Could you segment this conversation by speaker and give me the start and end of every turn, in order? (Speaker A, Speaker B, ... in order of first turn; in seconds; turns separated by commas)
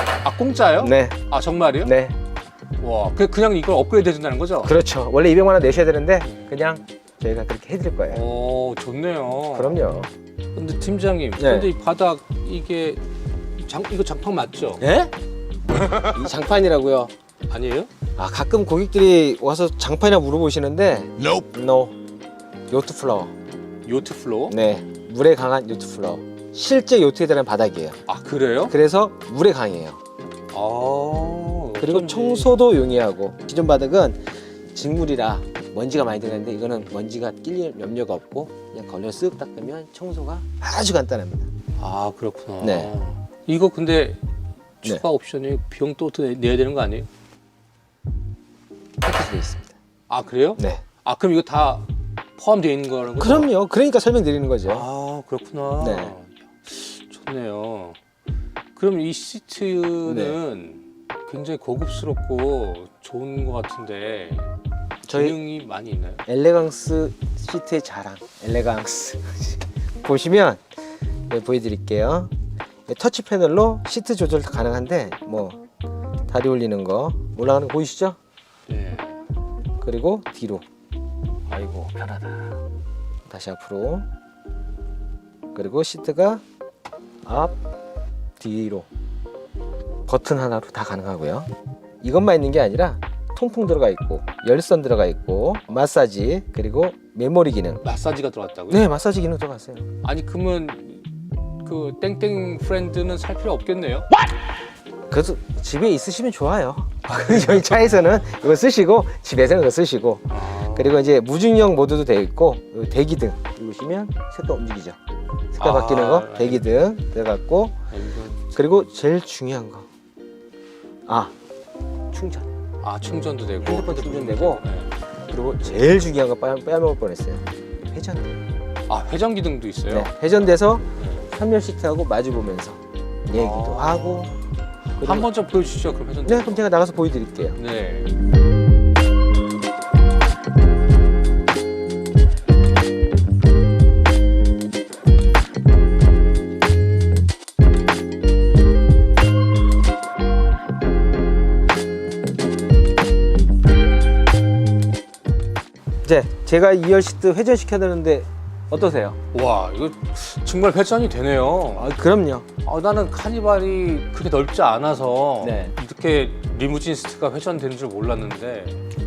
Speaker A: 0.2-1.9, Speaker B: 0.8-1.2, Speaker B: 1.8-2.1, Speaker A: 2.8-4.7, Speaker B: 4.6-8.2, Speaker A: 8.1-9.8, Speaker B: 9.5-10.1, Speaker A: 10.5-13.0, Speaker B: 11.4-11.7, Speaker A: 13.6-14.8, Speaker B: 14.8-15.1, Speaker A: 15.7-16.2, Speaker B: 15.9-17.1, Speaker A: 17.5-17.9, Speaker B: 18.2-21.9, Speaker B: 22.7-23.3, Speaker A: 23.9-24.6, Speaker B: 24.5-28.0, Speaker A: 28.1-28.8, Speaker B: 28.7-30.0, Speaker A: 30.5-32.5, Speaker B: 31.8-41.5, Speaker A: 41.8-44.2, Speaker B: 42.6-42.9, Speaker A: 44.8-47.1, Speaker B: 49.0-49.7, Speaker A: 50.1-53.5, Speaker B: 50.6-50.8, Speaker B: 53.2-54.9, Speaker A: 54.6-58.0, Speaker B: 55.8-56.1, Speaker A: 58.7-64.5, Speaker B: 60.0-60.4, Speaker B: 65.1-65.4, Speaker A: 65.1-66.2, Speaker B: 66.3-70.6, Speaker B: 71.3-72.3, Speaker B: 72.9-75.6, Speaker B: 76.3-78.2, Speaker A: 78.7-79.2, Speaker B: 79.8-80.6, Speaker B: 81.5-82.6, Speaker B: 83.3-84.0, Speaker B: 85.5-86.4, Speaker B: 87.2-87.5, Speaker B: 88.4-88.9, Speaker B: 90.1-91.5, Speaker B: 92.0-97.8, Speaker A: 97.8-98.8, Speaker B: 98.7-99.9, Speaker A: 100.0-104.1, Speaker B: 105.1-115.0, Speaker A: 107.1-107.7, Speaker A: 110.3-111.0, Speaker B: 115.5-117.8, Speaker A: 115.6-116.7, Speaker A: 117.9-118.4, Speaker B: 118.5-119.9, Speaker B: 121.1-121.3, Speaker B: 122.1-122.5, Speaker A: 122.8-124.9, Speaker B: 123.6-124.7, Speaker B: 125.3-128.4, Speaker A: 128.9-130.1, Speaker B: 129.9-134.3, Speaker A: 131.0-131.3, Speaker A: 133.3-134.4, Speaker A: 135.0-136.6, Speaker B: 135.0-135.3, Speaker B: 136.2-137.6, Speaker A: 137.6-138.1, Speaker B: 156.0-159.2, Speaker A: 159.3-161.9, Speaker B: 161.8-162.4, Speaker A: 162.6-168.8, Speaker B: 165.4-165.7